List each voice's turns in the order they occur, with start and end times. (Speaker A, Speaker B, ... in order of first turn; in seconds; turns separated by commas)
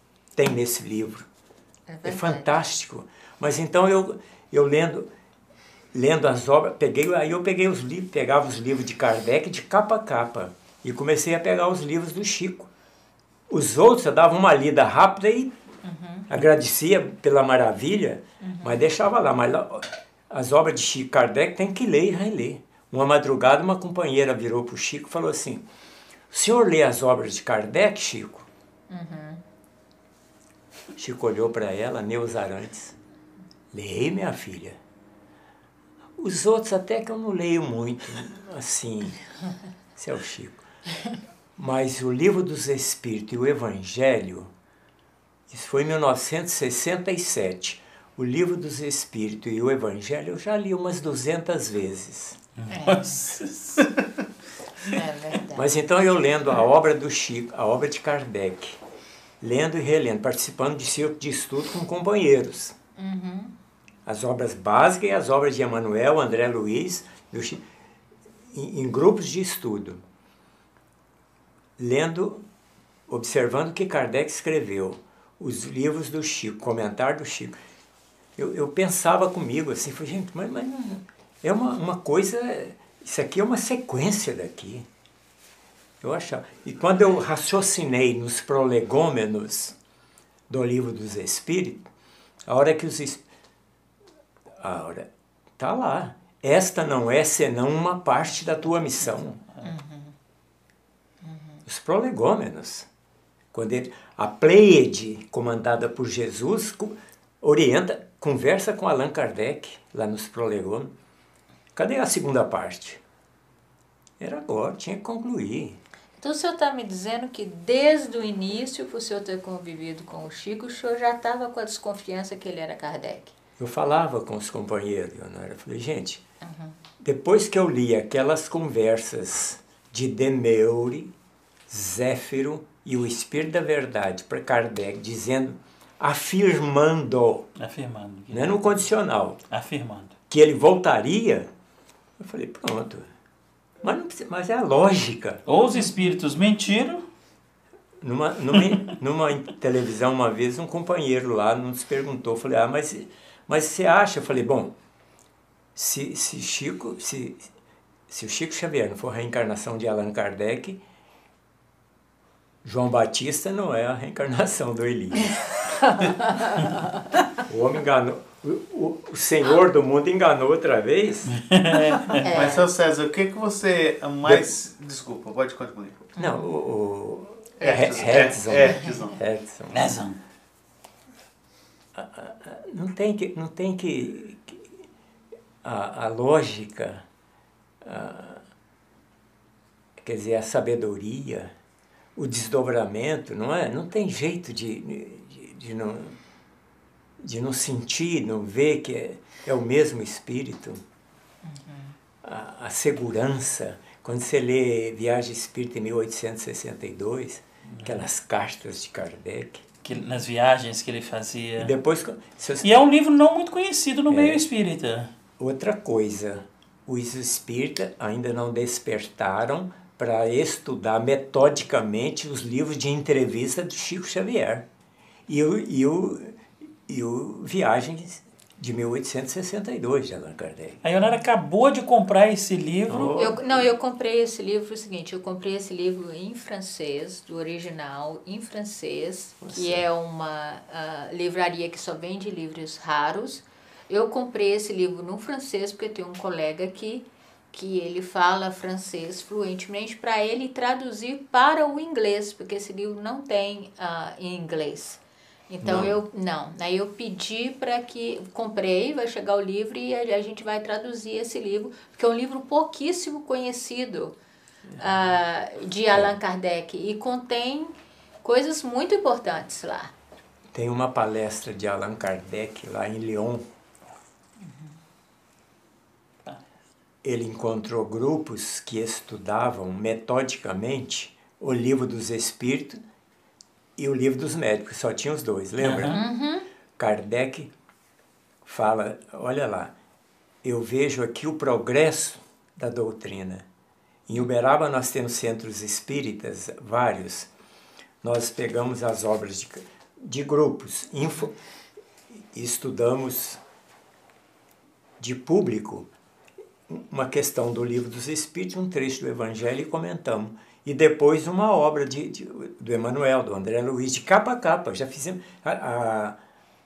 Speaker A: 0.3-1.3, Speaker B: 1.9-2.5, Speaker A: 2.0-5.1, Speaker A: 5.9-12.7, Speaker A: 13.5-15.5, Speaker B: 15.8-16.2, Speaker A: 16.3-25.6, Speaker B: 18.4-18.8, Speaker A: 26.3-28.5, Speaker B: 28.9-29.4, Speaker A: 31.0-33.0, Speaker A: 33.7-34.8, Speaker A: 36.2-39.2, Speaker A: 39.9-40.6, Speaker A: 41.6-44.5, Speaker A: 45.5-52.4, Speaker C: 52.6-54.1, Speaker B: 52.7-53.3, Speaker B: 54.8-55.7, Speaker A: 55.5-58.8, Speaker A: 59.4-62.8, Speaker B: 63.0-63.5, Speaker A: 64.0-67.6, Speaker A: 68.5-70.0, Speaker A: 71.8-72.5, Speaker A: 73.1-77.5, Speaker A: 78.3-84.9, Speaker A: 86.0-89.8, Speaker A: 90.5-91.9, Speaker A: 92.5-93.2, Speaker A: 94.6-99.4, Speaker C: 99.4-99.6, Speaker B: 99.6-100.1, Speaker B: 101.2-101.6, Speaker A: 101.7-102.9, Speaker A: 103.5-110.9, Speaker A: 111.7-113.0, Speaker A: 114.2-115.8, Speaker B: 116.2-123.3, Speaker A: 123.6-126.2, Speaker B: 126.4-126.7, Speaker A: 127.0-131.1, Speaker A: 131.7-137.5, Speaker C: 137.6-138.7, Speaker A: 138.3-139.4, Speaker C: 139.5-140.1, Speaker A: 140.3-141.5, Speaker A: 142.2-143.1, Speaker A: 143.8-145.4, Speaker C: 145.4-147.0, Speaker A: 148.0-154.7, Speaker A: 155.7-157.5, Speaker A: 158.1-160.8, Speaker A: 162.6-165.8, Speaker A: 167.4-171.4, Speaker C: 171.4-172.4, Speaker B: 172.2-172.6, Speaker D: 172.2-176.1, Speaker A: 176.2-179.9, Speaker B: 176.2-176.4, Speaker D: 177.6-179.2, Speaker C: 179.7-180.2, Speaker A: 181.9-184.7, Speaker A: 185.6-187.0, Speaker A: 187.8-188.4, Speaker A: 190.0-191.5, Speaker A: 192.2-196.2, Speaker A: 197.2-200.8, Speaker B: 201.4-201.9, Speaker A: 202.2-209.7, Speaker C: 207.7-208.0, Speaker C: 209.8-211.7, Speaker A: 211.6-212.7, Speaker C: 212.6-215.1, Speaker A: 214.1-214.4, Speaker A: 215.4-224.7, Speaker A: 225.3-230.8, Speaker C: 230.8-233.4, Speaker A: 232.9-233.4, Speaker B: 233.1-264.1, Speaker A: 239.4-239.8, Speaker A: 255.6-255.9, Speaker B: 264.8-269.9, Speaker A: 270.5-273.4, Speaker A: 277.0-282.8, Speaker A: 283.8-286.0, Speaker C: 285.6-286.0, Speaker B: 285.8-286.4, Speaker A: 286.8-287.5, Speaker A: 288.4-289.7, Speaker A: 290.4-293.4, Speaker A: 294.1-297.3, Speaker A: 298.0-301.4, Speaker A: 302.1-303.4, Speaker A: 305.0-305.9, Speaker A: 306.7-316.2